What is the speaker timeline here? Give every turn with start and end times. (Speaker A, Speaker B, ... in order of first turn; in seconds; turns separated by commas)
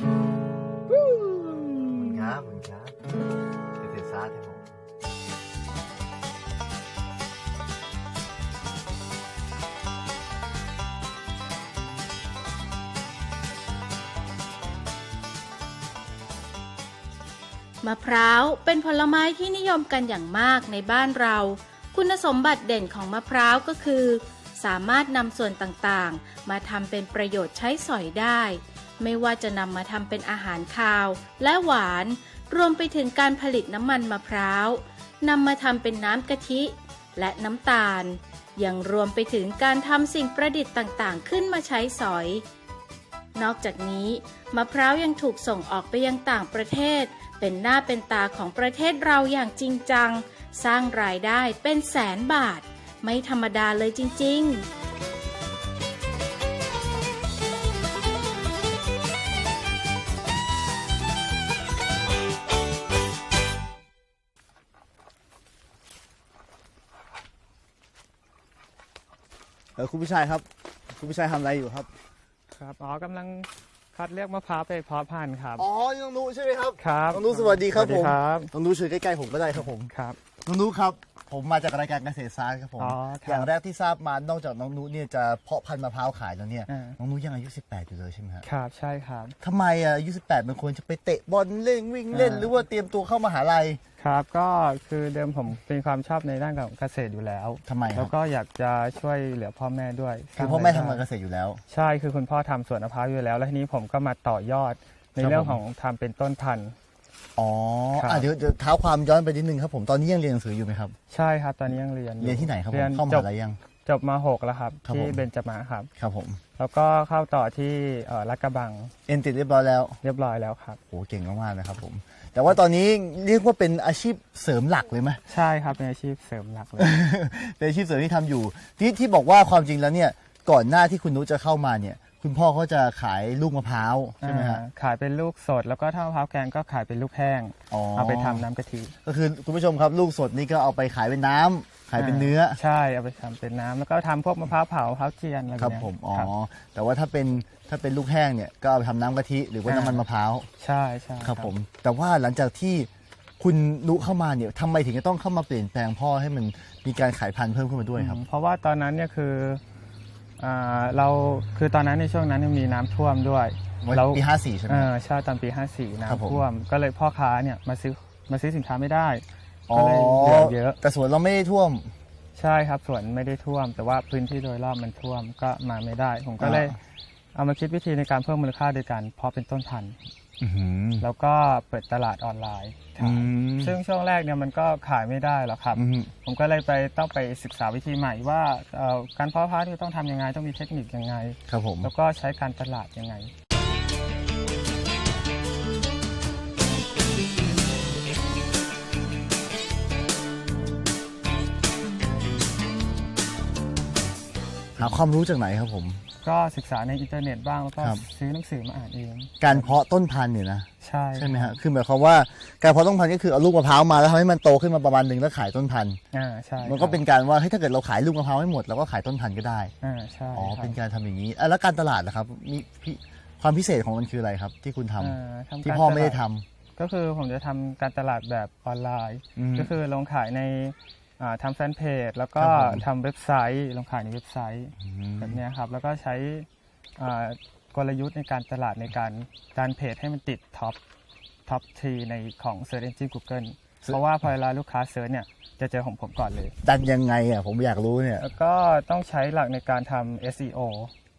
Speaker A: 1.9-3.0, Speaker A: 3.8-4.8, Speaker B: 17.8-42.5, Speaker B: 43.4-54.7, Speaker A: 69.8-71.9, Speaker C: 72.5-75.7, Speaker A: 75.6-79.9, Speaker C: 76.8-78.5, Speaker C: 79.6-80.2, Speaker A: 80.5-88.5, Speaker C: 82.8-83.5, Speaker C: 86.7-87.0, Speaker C: 88.4-89.4, Speaker A: 89.4-93.8, Speaker C: 92.1-92.6, Speaker C: 94.0-101.0, Speaker A: 97.7-98.1, Speaker A: 100.4-101.6, Speaker C: 101.7-106.8, Speaker A: 105.2-105.6, Speaker A: 107.4-111.0, Speaker C: 108.0-108.3, Speaker C: 111.1-113.3, Speaker A: 112.2-113.6, Speaker C: 113.8-115.9, Speaker A: 114.9-115.2, Speaker A: 116.0-116.4, Speaker C: 116.6-118.9, Speaker A: 119.1-120.0, Speaker C: 120.0-120.8, Speaker A: 120.9-125.2, Speaker C: 125.3-127.0, Speaker A: 126.8-134.6, Speaker C: 134.2-138.9, Speaker A: 137.7-138.5, Speaker A: 139.0-142.6, Speaker C: 142.0-146.3, Speaker A: 145.6-150.5, Speaker C: 149.7-150.0, Speaker C: 150.6-151.5, Speaker A: 151.2-152.9, Speaker A: 153.4-158.2, Speaker C: 158.0-159.6, Speaker C: 160.4-170.8, Speaker A: 163.8-164.9, Speaker A: 166.0-166.5, Speaker A: 169.7-171.9, Speaker C: 172.3-176.8, Speaker A: 176.4-176.8, Speaker C: 177.3-180.0, Speaker A: 180.4-181.1, Speaker C: 181.0-193.3, Speaker A: 183.0-183.8, Speaker A: 185.7-186.1, Speaker A: 191.5-191.9, Speaker A: 204.8-206.0, Speaker C: 206.2-209.7, Speaker A: 207.8-208.0, Speaker A: 209.4-216.0, Speaker C: 210.8-211.6, Speaker C: 216.1-217.0, Speaker A: 216.6-219.7, Speaker C: 219.8-220.8, Speaker A: 220.3-226.4, Speaker C: 225.0-226.2, Speaker C: 226.8-240.8, Speaker A: 229.4-229.7, Speaker A: 232.4-232.9, Speaker A: 234.8-235.4, Speaker C: 241.5-246.6, Speaker A: 246.6-248.3, Speaker C: 248.2-250.9